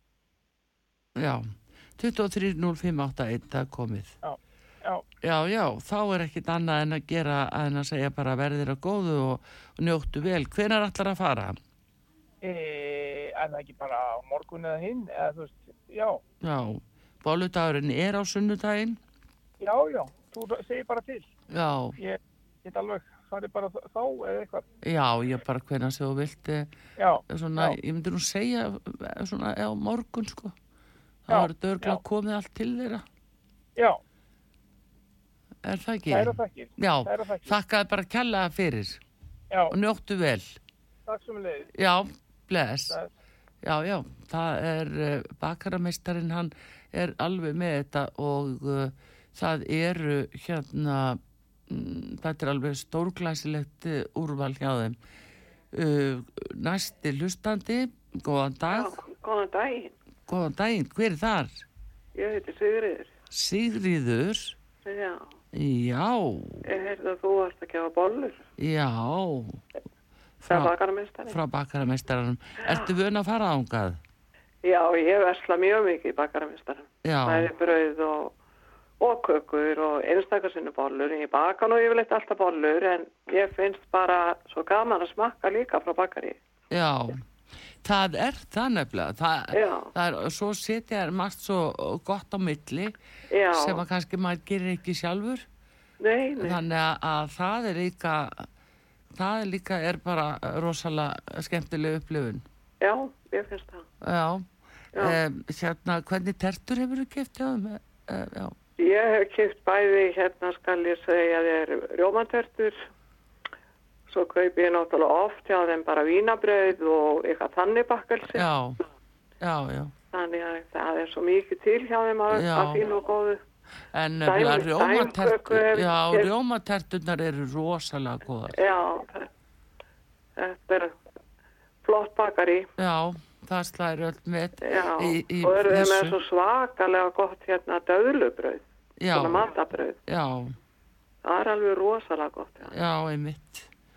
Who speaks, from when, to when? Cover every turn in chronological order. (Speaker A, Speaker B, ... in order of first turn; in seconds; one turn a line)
Speaker A: 1.2-4.1
Speaker B: 4.2-5.0
Speaker A: 5.2-11.6
Speaker B: 12.4-16.2
Speaker A: 16.4-19.0
Speaker B: 19.6-21.3
Speaker A: 21.5-22.0
Speaker B: 22.0-24.6
Speaker A: 24.8-26.7
Speaker B: 27.0-27.8
Speaker A: 27.3-30.6
Speaker A: 31.3-33.0
Speaker B: 31.3-32.0
Speaker A: 35.6-39.0
Speaker B: 36.1-37.5
Speaker A: 39.7-40.6
Speaker B: 41.1-41.7
Speaker A: 41.8-43.0
Speaker A: 43.6-55.0
Speaker A: 55.7-58.9
Speaker C: 58.7-60.0
Speaker A: 60.3-61.6
Speaker C: 62.1-63.1
Speaker A: 63.3-64.6
Speaker C: 64.8-65.3
Speaker A: 65.5-66.6
Speaker C: 66.7-68.4
Speaker A: 68.6-69.6
Speaker A: 70.4-70.7
Speaker C: 70.5-71.4
Speaker A: 71.3-74.0
Speaker C: 74.6-78.3
Speaker A: 77.0-77.5
Speaker C: 79.0-86.4
Speaker A: 86.7-87.2
Speaker A: 87.8-93.0
Speaker C: 89.5-89.9
Speaker C: 93.3-93.8
Speaker A: 93.5-95.5
Speaker C: 96.0-96.6
Speaker A: 96.4-98.5
Speaker A: 99.1-102.5
Speaker C: 102.8-103.8
Speaker A: 104.0-108.5
Speaker C: 108.8-112.8
Speaker C: 114.1-118.5
Speaker A: 118.3-118.8
Speaker A: 119.4-119.9
Speaker C: 120.1-123.4
Speaker A: 122.3-122.8
Speaker A: 123.9-128.6
Speaker C: 124.3-126.3
Speaker C: 128.5-129.3
Speaker C: 130.4-130.9
Speaker C: 131.8-132.7
Speaker A: 132.8-136.2
Speaker C: 134.6-140.0
Speaker A: 139.0-139.5
Speaker A: 140.1-140.5
Speaker C: 141.2-142.7
Speaker A: 142.7-143.7